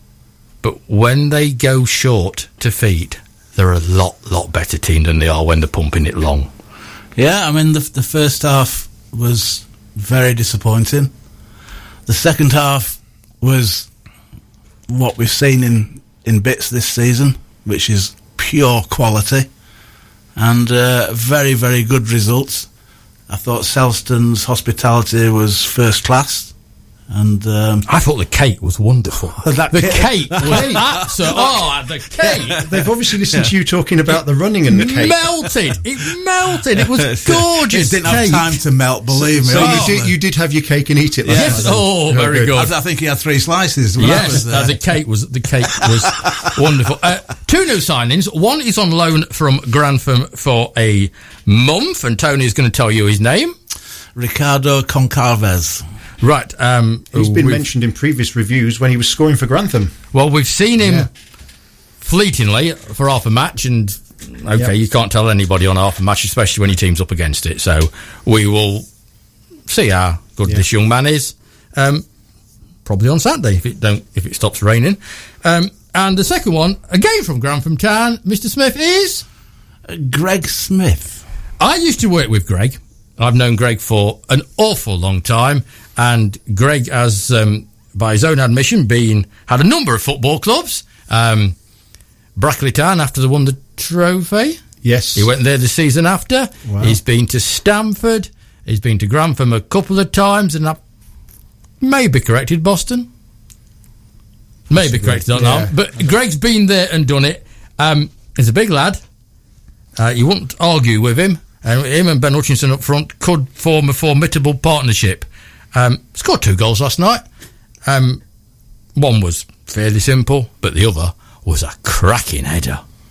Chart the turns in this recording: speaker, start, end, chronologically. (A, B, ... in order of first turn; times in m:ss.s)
0:00.6-0:06.5 A
0:07.2-0:11.1 B
0:12.1-0:13.9 B
0:14.9-0:19.5 B
0:20.4-0:22.7 B
0:23.3-0:26.5 B
0:27.1-0:27.8 B
0:27.9-0:32.7 A
0:29.4-0:31.6 B
0:30.4-0:31.0 C
0:32.2-0:32.7 B
0:32.6-0:35.1 C
0:34.7-0:38.6 A
0:36.8-0:40.1 B
0:39.4-0:42.6 C
0:39.5-0:39.9 A
0:41.2-0:41.9 B
0:41.3-0:42.7 A
0:42.5-0:44.8 B
0:44.0-0:53.5 A
0:54.1-0:55.8 B
0:56.2-0:57.6 A
0:57.1-1:00.0 C
1:00.1-1:01.1 A
1:00.8-1:01.1 C
1:02.0-1:08.8 A
1:09.7-1:12.0 A
1:12.8-1:19.2 A
1:19.9-1:21.2 B
1:21.6-1:31.6 A
1:32.4-1:34.6 A
1:34.8-1:35.3 C
1:35.1-1:40.8 A
1:36.6-1:37.0 C
1:41.8-1:43.1 A
1:44.7-1:45.7 C
1:44.7-1:49.0 A
1:50.0-1:57.2 A
1:57.8-1:58.2 A
1:59.0-2:02.8 A